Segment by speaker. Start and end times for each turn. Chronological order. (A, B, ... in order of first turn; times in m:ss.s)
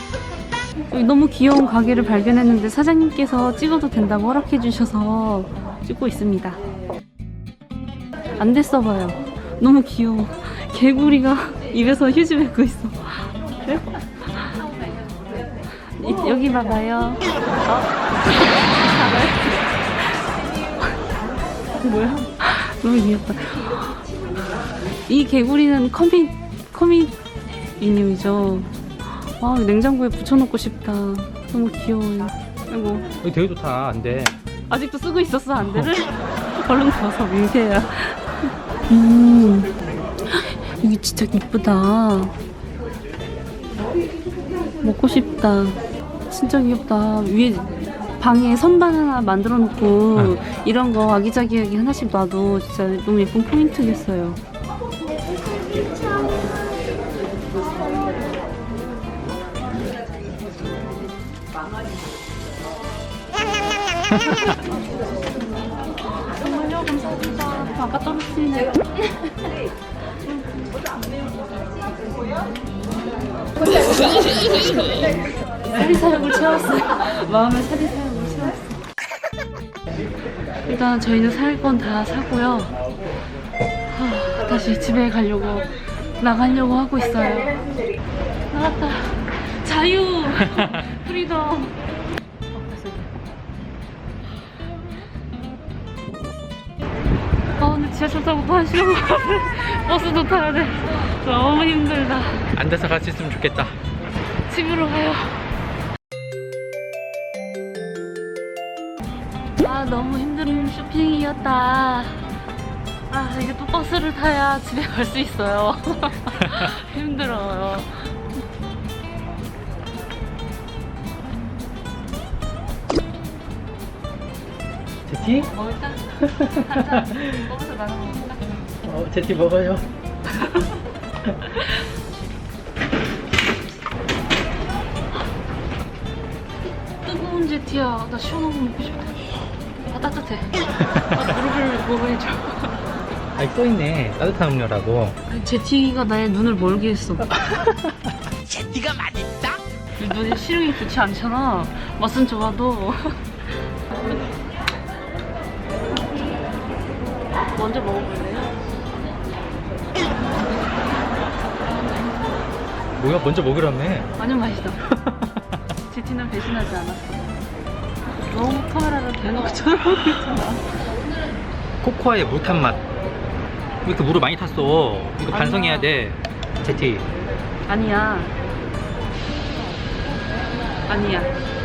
0:00.9-0:06.6 A
0:08.4-0:14.6 A
0:16.0-0:20.2 A
0:21.8-0:24.0 A
0:25.1-0:27.2 A
0:27.8-0:33.1 A
0:33.2-0:34.4 B
0:34.7-0:39.7 A
0:35.6-0:35.9 B
0:40.3-0:42.3 A
0:44.8-0:54.4 A
1:06.3-1:08.8 A
1:14.2-1:15.0 A
1:15.7-1:18.8 A
1:20.7-1:22.8 A
1:23.9-1:27.6 A
1:28.5-1:31.8 A
1:32.5-1:33.1 A
1:37.6-1:42.5 A
1:42.6-1:43.8 B
1:44.5-1:45.4 A
1:49.6-1:52.2 A
1:53.1-1:57.9 A
2:05.1-2:05.5 B
2:05.2-2:08.6 A
2:06.2-2:07.4 B
2:08.8-2:09.8 B
2:10.3-2:10.6 A
2:11.3-2:11.8 A
2:16.9-2:19.3 A
2:19.9-2:22.8 A
2:20.8-2:21.2 B
2:23.4-2:25.2 B
2:25.3-2:27.3 A
2:27.4-2:27.8 B
2:28.6-2:29.5 B
2:30.0-2:33.3 A
2:37.6-2:38.5 A
2:43.0-2:44.1 B
2:44.2-2:44.8 A
2:45.0-2:45.3 B
2:45.9-2:47.3 A
2:48.2-2:50.6 A
2:51.8-2:52.8 B
2:53.8-2:57.1 B
2:55.3-2:55.9 A
2:57.7-2:58.3 A
3:00.9-3:01.3 A